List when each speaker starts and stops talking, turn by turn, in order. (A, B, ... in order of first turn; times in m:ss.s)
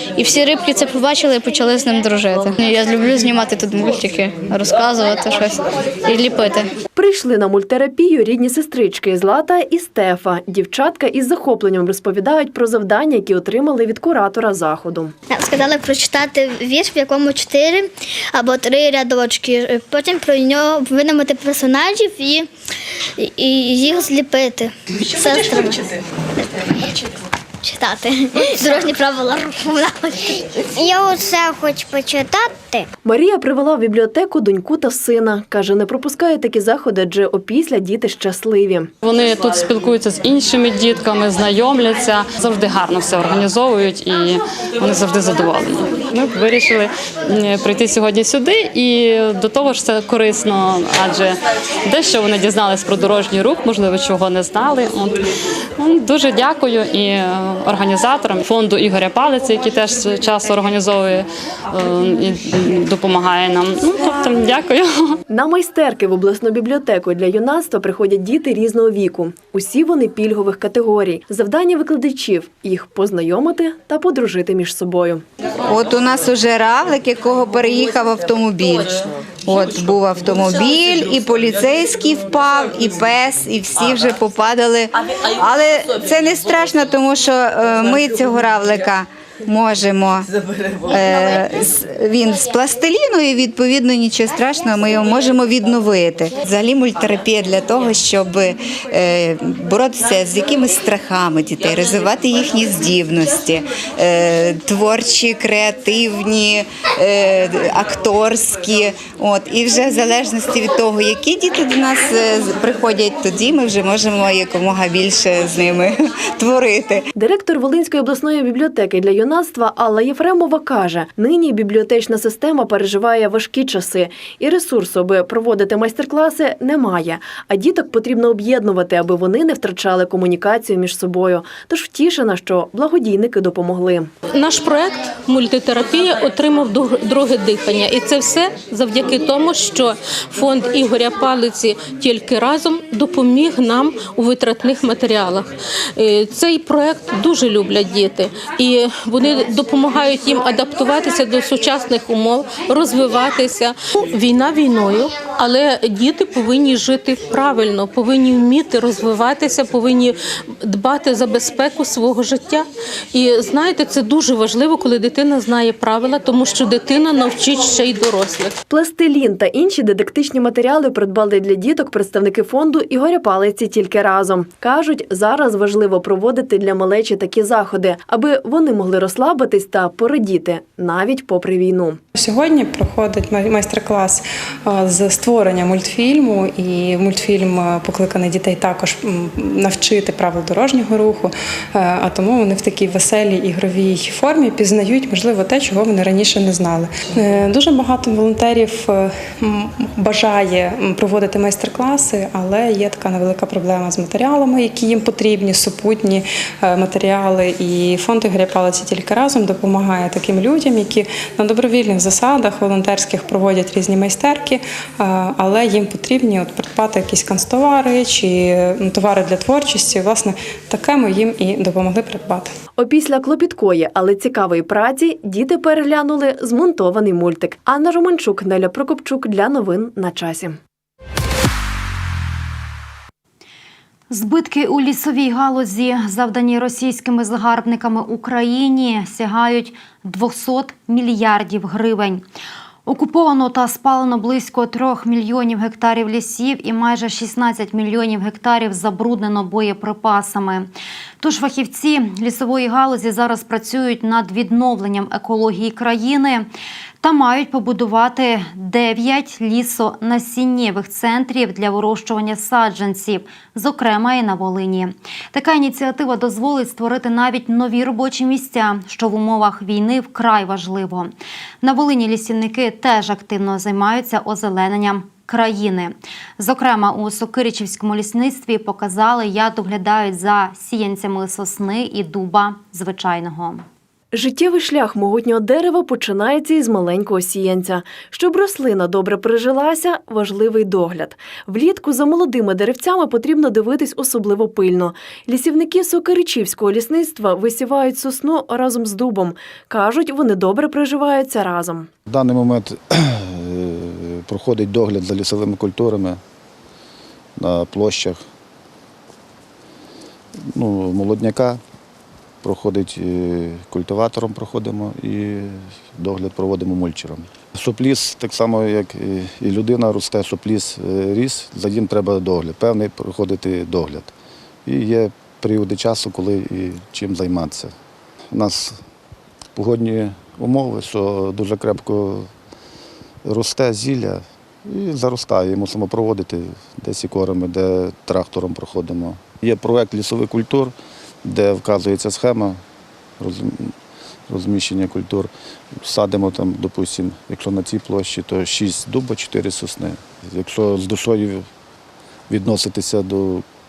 0:00.2-0:06.7 A
0:06.9-0:15.1 B
0:15.3-0:22.5 C
0:23.2-0:25.8 C
0:27.6-0:32.8 C
0:33.0-0:38.9 B
0:39.0-0:51.4 D
0:51.9-0:55.2 D
0:55.8-1:05.2 D
1:05.3-1:15.2 B
1:15.8-1:16.2 E
1:16.8-1:18.8 E
1:19.5-1:24.5 E
1:25.4-1:29.0 E
1:29.7-1:30.2 E
1:31.1-1:31.6 E
1:32.4-1:46.6 E
1:47.2-1:53.6 E
1:54.3-1:54.6 E
1:55.2-1:55.8 E
1:56.4-1:57.0 E
1:57.2-2:14.1 B
2:14.5-2:14.7 F
2:15.4-2:19.8 F
2:20.3-2:22.0 F
2:27.5-2:28.4 F
2:29.7-2:32.9 F
2:34.3-2:34.8 F
2:35.5-2:36.6 F
2:37.2-2:37.6 F
2:38.3-2:40.0 F
2:40.7-2:42.6 F
2:43.2-2:48.4 F
2:48.7-3:02.0 B
3:02.2-3:42.5 G
3:42.8-3:50.6 B
3:54.1-4:02.2 H
4:02.8-4:10.7 H
4:11.2-4:16.4 H
4:17.0-4:31.1 H
4:31.6-4:43.6 H
4:44.1-5:01.9 B
5:02.0-5:06.2 I
5:07.4-5:08.2 I
5:10.5-5:11.6 I
5:12.4-5:24.1 I
5:24.6-5:27.7 I
5:28.3-5:28.8 I
5:29.6-5:32.3 I
5:33.2-5:40.7 I
5:41.2-5:42.6 I
5:43.2-5:43.7 I
5:44.3-5:51.5 I
5:52.3-5:53.4 I